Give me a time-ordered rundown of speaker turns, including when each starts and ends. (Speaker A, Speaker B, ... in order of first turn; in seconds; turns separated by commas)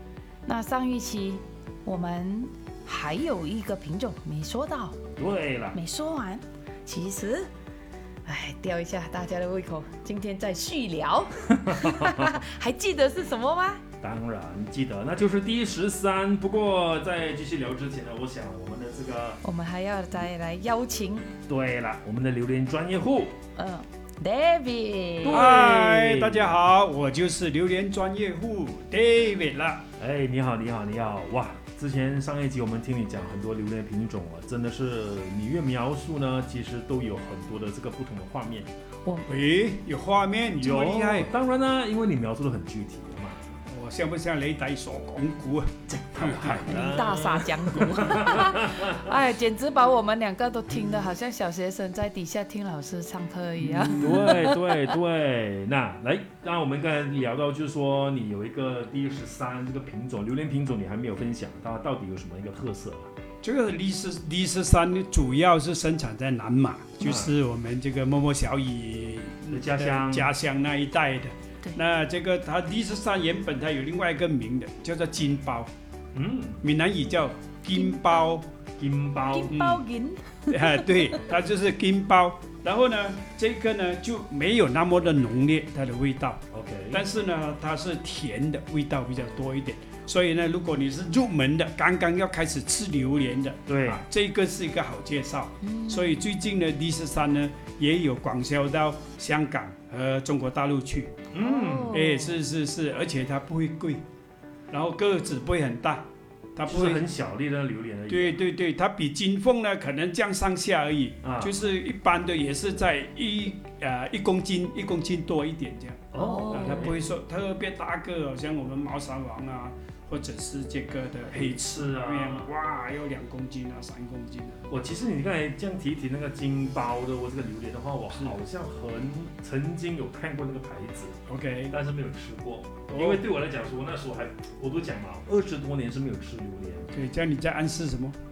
Speaker A: 0.4-5.0, Speaker B: 5.2-5.8, Speaker A: 5.7-7.5, Speaker A: 8.2-13.8, Speaker B: 11.6-12.4, Speaker B: 14.0-19.4, Speaker A: 19.4-21.3, Speaker B: 21.5-23.4, Speaker A: 23.6-25.5, Speaker B: 25.2-26.6, Speaker C: 25.2-29.9, Speaker B: 30.0-38.7, Speaker C: 39.3-41.3, Speaker B: 40.6-43.6, Speaker C: 43.7-46.8, Speaker B: 45.9-49.1, Speaker A: 46.6-54.9, Speaker C: 53.6-54.4, Speaker B: 53.9-63.1, Speaker C: 63.4-75.7, Speaker B: 67.0-67.3, Speaker B: 69.5-70.3, Speaker B: 76.1-76.6, Speaker C: 76.6-78.5, Speaker A: 77.7-78.0, Speaker B: 78.8-79.6, Speaker A: 79.3-81.2, Speaker C: 79.5-79.8, Speaker C: 80.5-101.1, Speaker B: 86.5-87.0, Speaker B: 93.7-94.0, Speaker A: 95.6-96.2, Speaker B: 101.3-102.0, Speaker A: 101.4-102.4, Speaker C: 101.9-104.0, Speaker C: 104.7-107.0, Speaker B: 106.7-108.4, Speaker C: 108.1-124.7, Speaker B: 111.2-111.5, Speaker B: 116.1-117.0, Speaker A: 116.2-116.9, Speaker B: 121.3-122.5, Speaker B: 124.7-131.2, Speaker C: 131.3-131.8, Speaker B: 131.7-136.9, Speaker C: 132.9-133.2, Speaker C: 136.9-138.2